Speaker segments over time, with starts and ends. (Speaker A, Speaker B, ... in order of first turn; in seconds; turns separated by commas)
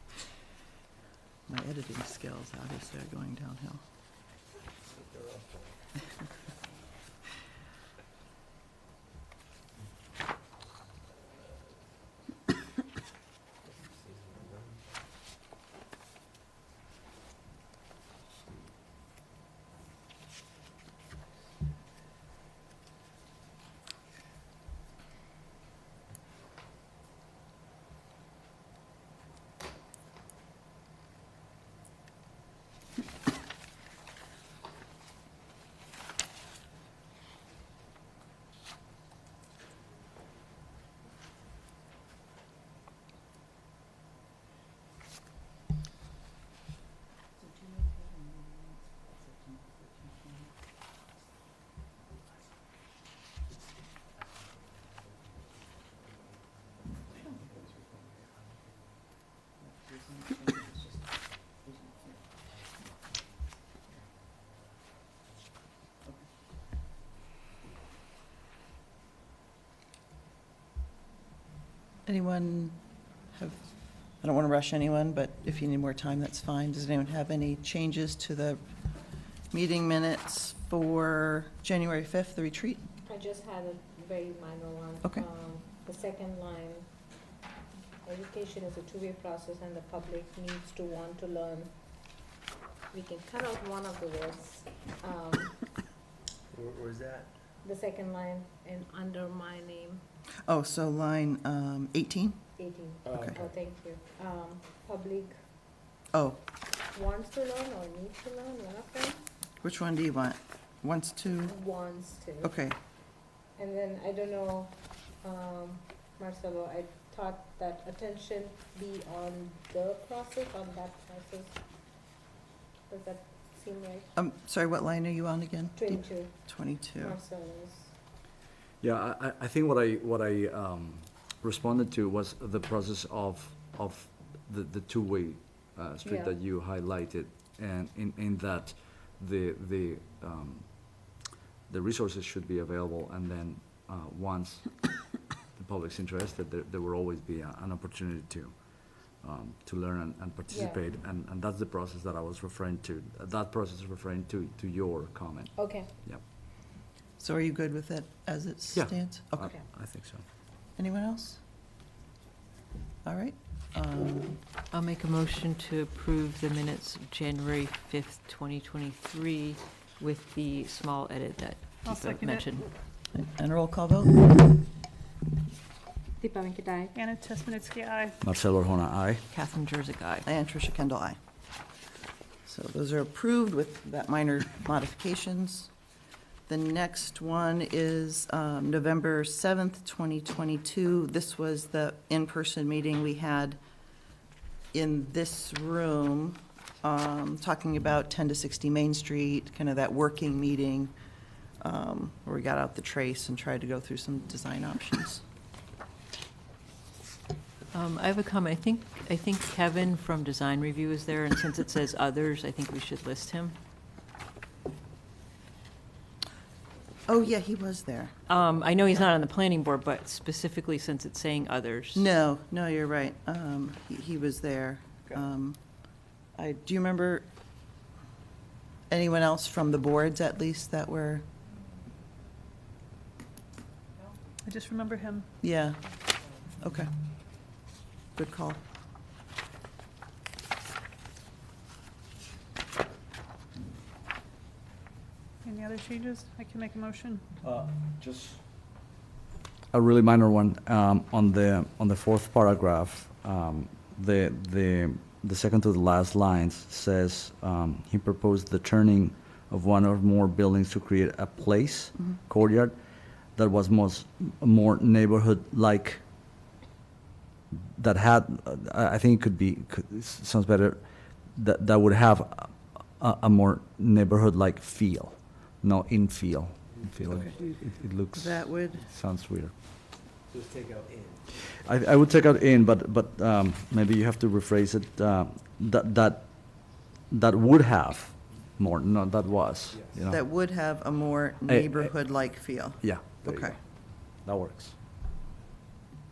Speaker A: 1.5-3.8, Speaker B: 4.8-5.8, Speaker B: 13.8-14.8, Speaker A: 72.1-72.8, Speaker A: 73.3-78.6, Speaker A: 79.5-82.8, Speaker C: 83.0-86.9, Speaker C: 88.0-91.7, Speaker C: 92.9-95.6, Speaker B: 96.5-97.3, Speaker C: 97.6-100.0, Speaker A: 100.5-102.4, Speaker C: 102.6-105.5, Speaker B: 103.1-103.4, Speaker A: 106.1-106.4, Speaker C: 106.9-109.2, Speaker A: 109.6-111.6, Speaker C: 111.4-112.5, Speaker A: 112.4-112.8, Speaker C: 113.5-121.6, Speaker C: 122.9-124.1, Speaker A: 124.2-127.2, Speaker C: 125.8-127.9, Speaker D: 128.8-141.2, Speaker C: 136.0-136.3, Speaker D: 141.7-156.2, Speaker C: 150.5-150.8, Speaker C: 155.6-155.9, Speaker A: 157.2-159.6, Speaker D: 158.7-160.2, Speaker A: 160.8-161.4, Speaker A: 163.1-164.4, Speaker E: 164.7-172.7, Speaker F: 171.8-172.6, Speaker A: 173.1-174.2, Speaker C: 176.2-176.9, Speaker F: 176.9-178.2, Speaker D: 178.2-179.2, Speaker E: 179.3-180.2, Speaker A: 180.2-181.2, Speaker A: 182.4-185.7, Speaker A: 186.5-193.6, Speaker A: 194.7-200.9, Speaker A: 201.6-205.2, Speaker E: 207.7-213.6, Speaker A: 217.1-218.1, Speaker E: 218.3-222.1, Speaker A: 222.0-225.6, Speaker A: 226.3-227.3, Speaker A: 228.9-231.2, Speaker F: 234.4-235.3, Speaker A: 235.4-235.9, Speaker A: 236.6-236.9, Speaker A: 238.2-238.6, Speaker F: 245.4-247.2, Speaker D: 247.4-248.4, Speaker D: 249.7-262.8, Speaker D: 263.4-266.0, Speaker D: 267.5-279.5, Speaker B: 276.7-277.6, Speaker A: 277.1-277.4, Speaker A: 278.1-278.9, Speaker B: 280.3-281.3, Speaker D: 281.6-290.2, Speaker B: 289.7-290.0, Speaker A: 290.1-293.6, Speaker D: 291.4-291.9, Speaker D: 292.8-294.8